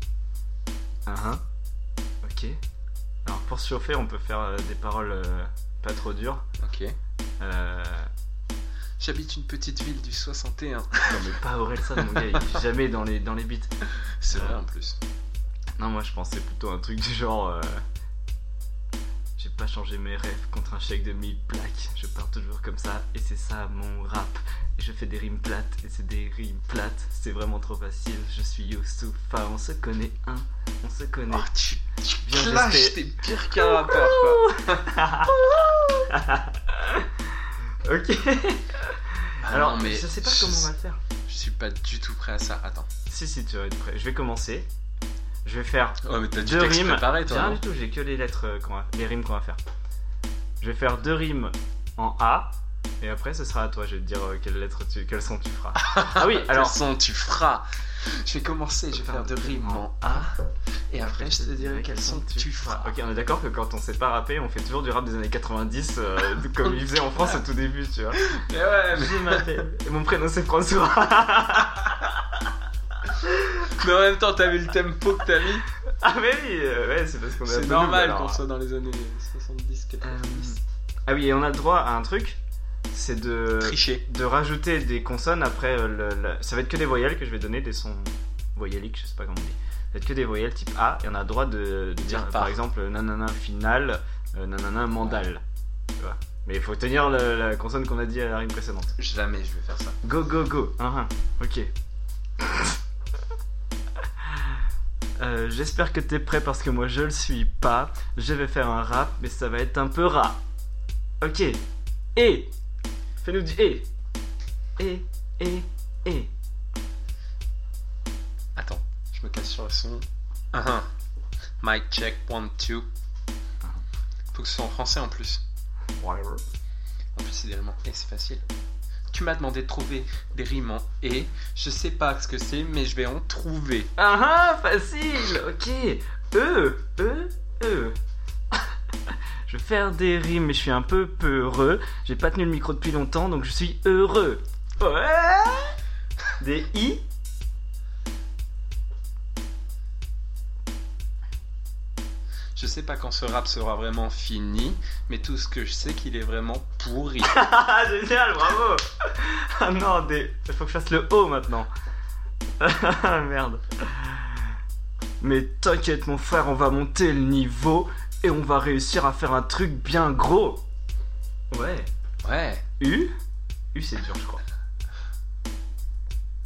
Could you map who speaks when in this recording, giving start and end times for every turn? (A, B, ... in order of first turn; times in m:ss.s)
0:01.1-0:01.4 A
0:02.2-0:02.6 A
0:03.2-0:06.5 A
0:06.6-0:07.0 B
0:07.4-0:08.1 A
0:09.0-0:11.3 B
0:11.1-0:13.7 A
0:11.9-0:12.5 B
0:14.0-0:15.0 B
0:14.3-0:14.6 A
0:15.8-0:17.8 A
0:19.4-0:31.5 A
0:31.3-0:36.0 B
0:32.2-0:41.0 A
0:39.4-0:40.7 B
0:41.3-0:42.9 B
0:43.1-0:44.7 A
0:45.4-0:49.6 A
0:46.0-0:47.6 B
0:50.6-0:56.8 A
0:55.8-1:03.0 B
0:58.9-1:00.3 A
1:01.0-1:08.2 A
1:06.6-1:07.4 B
1:08.2-1:09.5 B
1:08.9-1:12.5 A
1:13.5-1:15.7 B
1:15.9-1:18.4 A
1:17.4-1:20.6 B
1:20.0-1:22.4 A
1:22.9-1:35.4 A
1:23.6-1:24.1 B
1:32.0-1:32.6 B
1:35.0-1:35.3 B
1:36.0-1:39.0 A
1:39.0-1:40.0 B
1:40.0-1:41.7 A
1:42.4-1:42.8 A
1:44.2-1:44.6 A
1:45.2-1:50.4 A
1:51.2-1:51.6 A
1:52.2-1:52.5 A
1:53.2-1:53.9 A
1:54.8-1:56.3 A
1:58.6-2:00.9 B
2:01.6-2:02.9 B
2:04.3-2:05.4 B
2:06.0-2:06.4 A
2:07.2-2:08.4 B
2:09.1-2:13.9 B
2:14.0-2:18.0 A
2:18.5-2:25.8 A
2:26.4-2:27.1 A
2:32.6-2:37.4 B
2:37.3-2:41.7 A
2:42.6-2:44.5 A
2:45.2-2:50.6 A
2:51.5-2:51.9 A
2:52.2-2:52.7 B
2:52.8-2:53.1 A
2:53.7-2:54.4 A